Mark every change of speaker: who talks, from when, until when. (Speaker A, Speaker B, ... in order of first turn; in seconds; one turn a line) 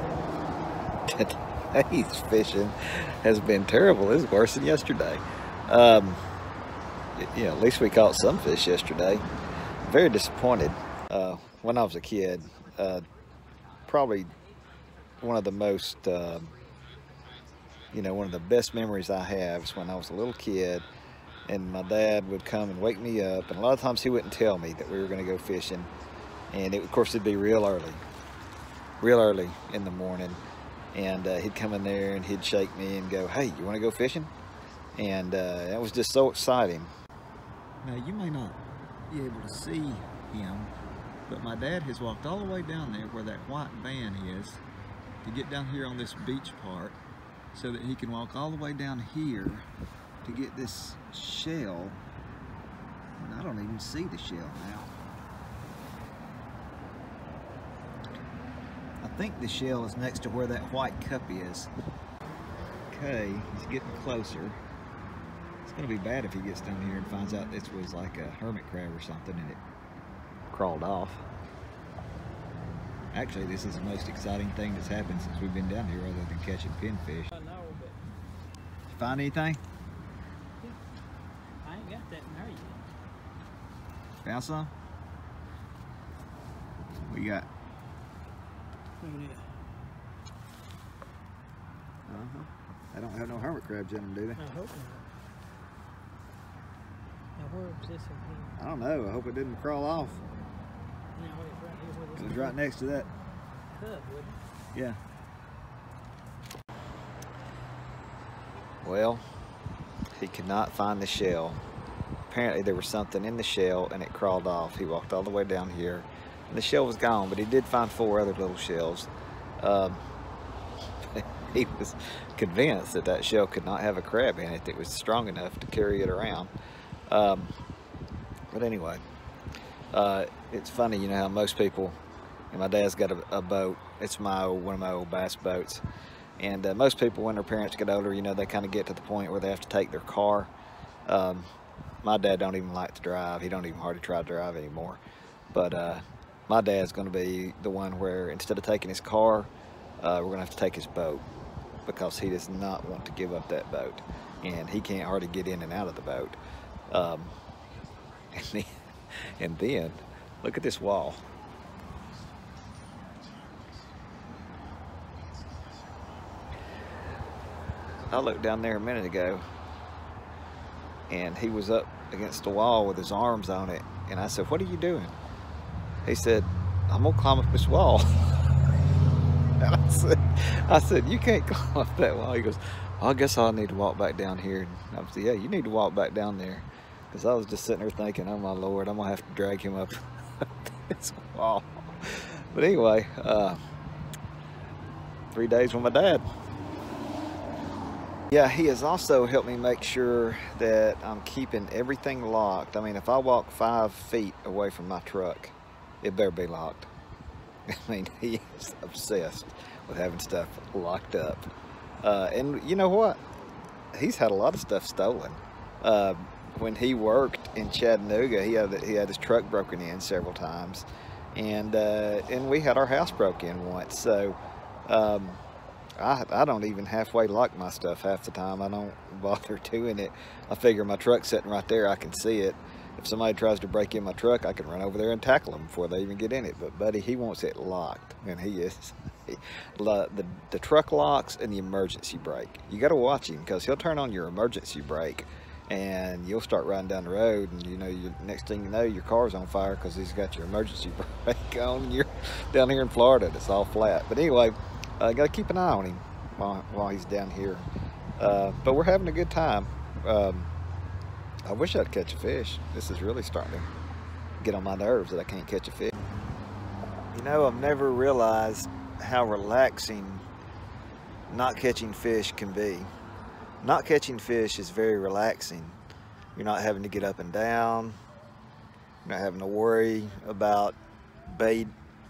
Speaker A: 1.1-6.2
Speaker A: 7.2-9.2
Speaker A: 9.8-13.0
Speaker A: 13.9-14.3
Speaker A: 15.2-16.5
Speaker A: 17.9-20.8
Speaker A: 21.5-25.9
Speaker A: 26.5-28.0
Speaker A: 29.0-30.4
Speaker A: 30.9-34.3
Speaker A: 35.0-36.9
Speaker A: 37.8-38.6
Speaker A: 39.1-40.7
Speaker A: 41.3-44.6
Speaker A: 45.2-47.0
Speaker A: 47.5-49.7
Speaker A: 50.2-52.0
Speaker A: 53.2-54.9
Speaker A: 59.0-61.7
Speaker A: 62.9-64.6
Speaker A: 65.6-69.6
Speaker A: 70.5-71.2
Speaker A: 73.1-77.3
Speaker B: 77.3-78.0
Speaker A: 78.9-79.6
Speaker B: 81.6-82.9
Speaker A: 84.2-84.7
Speaker A: 87.0-87.5
Speaker B: 89.0-89.5
Speaker A: 92.0-94.4
Speaker B: 94.4-95.1
Speaker B: 97.4-98.5
Speaker A: 98.6-100.2
Speaker B: 101.1-102.6
Speaker A: 102.2-103.1
Speaker B: 103.7-104.4
Speaker A: 108.8-109.2
Speaker A: 110.1-111.6
Speaker A: 112.3-120.0
Speaker A: 121.0-126.5
Speaker A: 127.1-127.5
Speaker A: 128.5-129.0
Speaker A: 129.9-132.0
Speaker A: 132.5-135.8
Speaker A: 136.4-140.5
Speaker A: 141.1-141.5
Speaker A: 142.0-145.0
Speaker A: 145.5-151.2
Speaker A: 151.8-156.4
Speaker A: 156.9-157.3
Speaker A: 158.3-158.7
Speaker A: 159.2-161.2
Speaker A: 168.1-169.4
Speaker A: 171.1-175.2
Speaker A: 176.0-178.3
Speaker A: 179.6-193.6
Speaker A: 195.3-196.2
Speaker A: 198.3-206.9
Speaker A: 207.7-211.5
Speaker A: 212.0-213.2
Speaker A: 213.9-225.4
Speaker A: 226.0-260.5
Speaker A: 261.4-263.7
Speaker A: 264.4-265.9
Speaker A: 267.1-270.2
Speaker A: 271.3-272.9
Speaker A: 273.6-275.8
Speaker A: 276.4-278.0
Speaker A: 279.0-281.7